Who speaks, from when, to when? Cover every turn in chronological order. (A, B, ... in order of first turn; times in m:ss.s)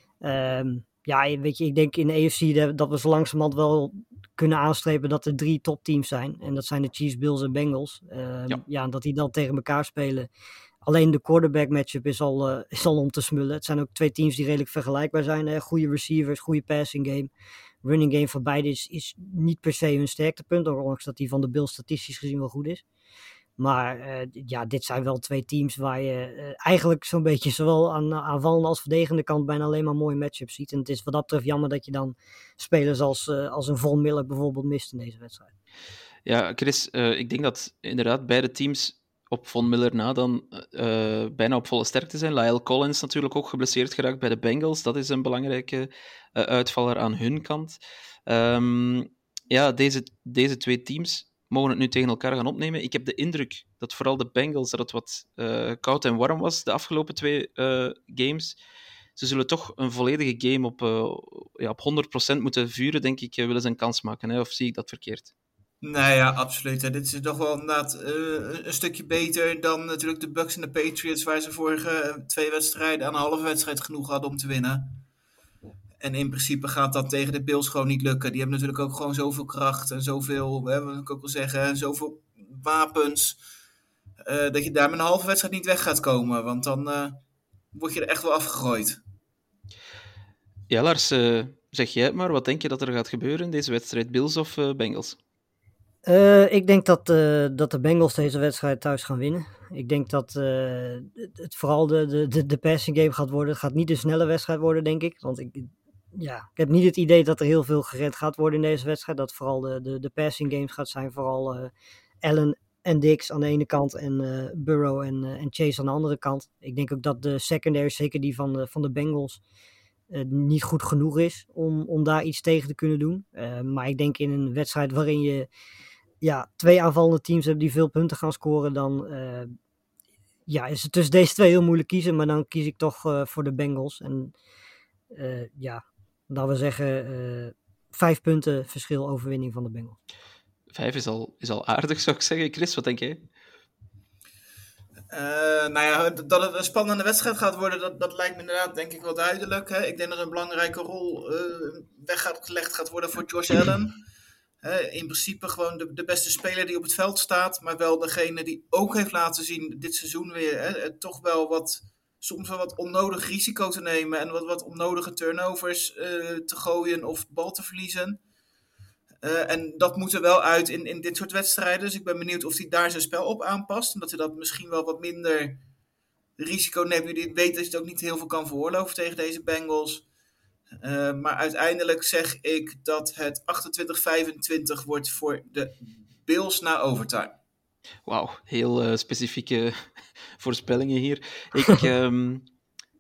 0:00.2-0:10.3 A
0:10.8-0:17.3 A
0:17.8-0:22.8 A
0:23.6-0:35.5 A
0:36.2-0:58.6 B
0:59.2-1:05.3 B
1:05.8-1:15.0 C
1:16.0-1:23.4 C
1:24.2-1:27.2 C
1:27.7-1:29.0 C
1:30.7-1:35.2 B
1:36.1-1:51.7 A
1:52.2-1:59.4 A
2:00.1-2:05.5 A
2:06.2-2:09.5 A
2:10.5-2:14.3 A
2:15.1-2:20.0 A
2:20.7-2:23.2 B
2:25.1-2:34.0 C
2:34.6-2:48.2 C
2:49.2-2:55.6 C
2:56.4-3:00.0 C
3:00.8-3:07.4 C
3:08.1-3:12.5 B